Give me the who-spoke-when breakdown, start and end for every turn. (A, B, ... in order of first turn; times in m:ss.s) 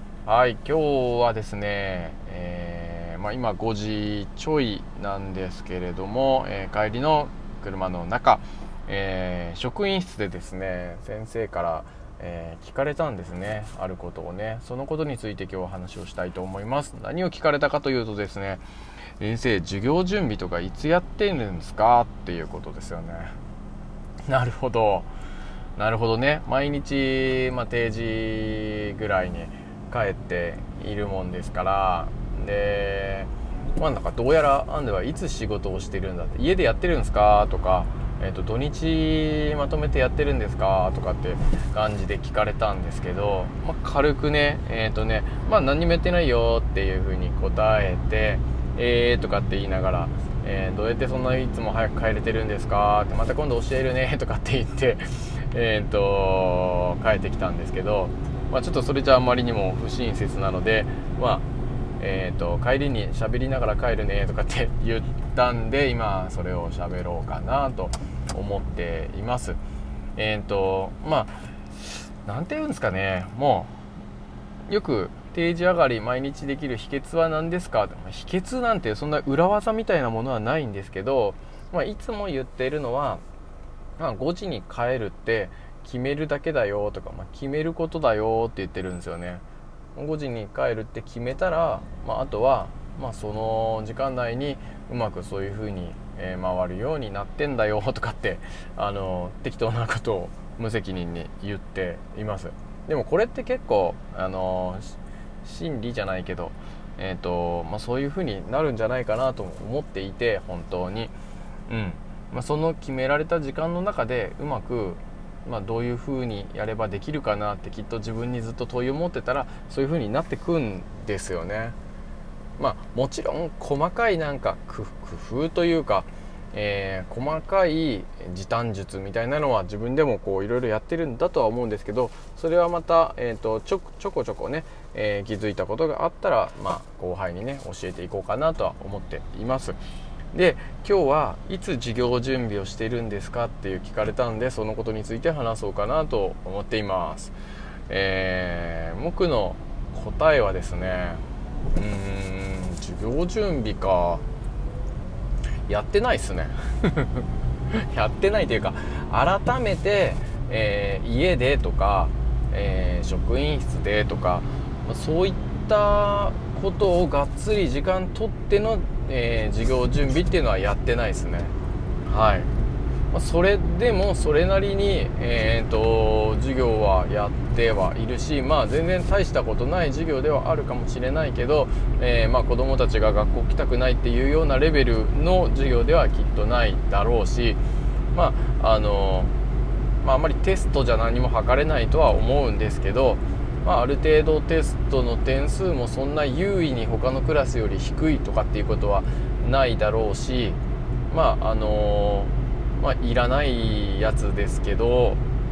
0:00.3-0:18.6 A
0:19.2-0:23.3 A
0:24.3-0:25.1 A
0:25.8-1:01.4 A
1:02.0-1:09.6 A
1:10.2-1:13.7 A
1:14.7-1:23.2 A
1:24.0-1:29.4 A
1:30.0-1:51.1 A
1:51.7-2:01.8 A
2:02.6-2:19.8 A
2:20.3-2:27.3 A
2:27.9-2:31.2 A
2:31.7-2:34.2 A
2:35.7-2:51.5 A
2:52.1-2:52.5 A
2:53.1-3:07.6 A
3:08.1-3:09.3 A
3:10.0-3:20.6 A
3:21.1-3:25.2 A